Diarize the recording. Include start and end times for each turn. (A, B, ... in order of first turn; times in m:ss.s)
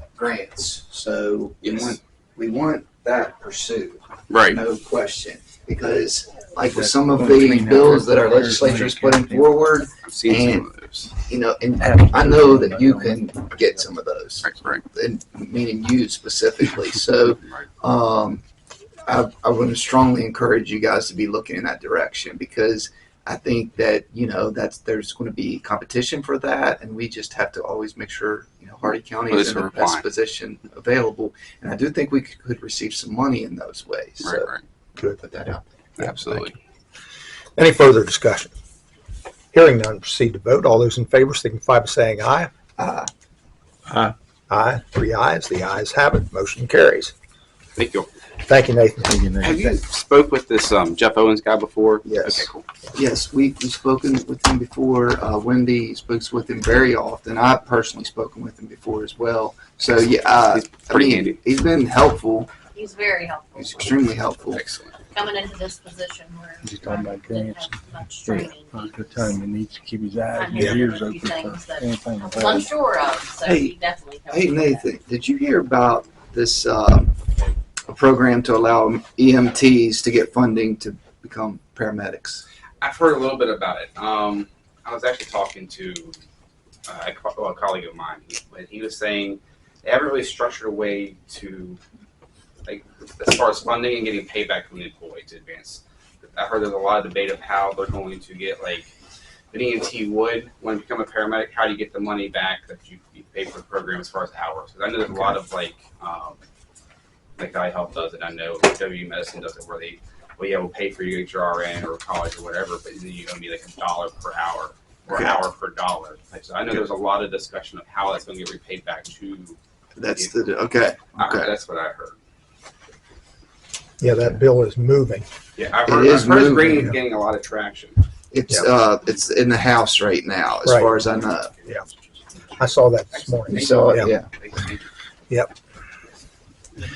0:00.2-0:18.4 A
0:01.6-0:02.0 B
0:04.3-0:04.6 B
0:06.7-0:09.6 C
0:10.0-0:11.1 B
0:11.9-0:13.2 C
0:14.4-0:14.8 B
0:19.1-0:34.5 A
0:29.3-0:30.0 B
0:34.2-0:34.6 B
0:35.2-0:35.6 A
0:36.0-0:36.6 B
0:36.0-0:36.5 D
0:37.6-0:38.5 D
0:39.5-0:42.5 D
0:42.8-0:43.1 A
0:43.9-0:44.1 C
0:44.5-0:47.1 D
0:47.8-0:48.1 B
0:48.4-0:49.8 D
0:49.1-0:49.6 C
0:49.4-0:52.7 B
0:52.0-1:02.5 A
1:00.5-1:01.4 B
1:02.7-1:03.8 E
1:03.6-1:04.6 A
1:04.5-1:05.0 B
1:05.1-1:09.4 E
1:06.6-1:12.7 C
1:10.3-1:14.9 E
1:13.4-1:13.7 A
1:14.3-1:17.1 A
1:17.9-1:22.4 A
1:22.8-1:26.2 B
1:26.9-1:31.8 B
1:32.7-1:38.9 B
1:39.5-1:46.4 B
1:47.4-1:59.6 B
1:55.1-1:55.4 A
2:00.0-2:01.5 A
2:01.1-2:02.2 B
2:04.0-2:05.3 D
2:05.6-2:08.0 B
2:05.9-2:06.8 A
2:06.7-2:07.0 D
2:08.3-2:11.6 A
2:10.6-2:11.0 D
2:12.6-2:14.1 D
2:13.1-2:14.9 B
2:13.5-2:14.3 A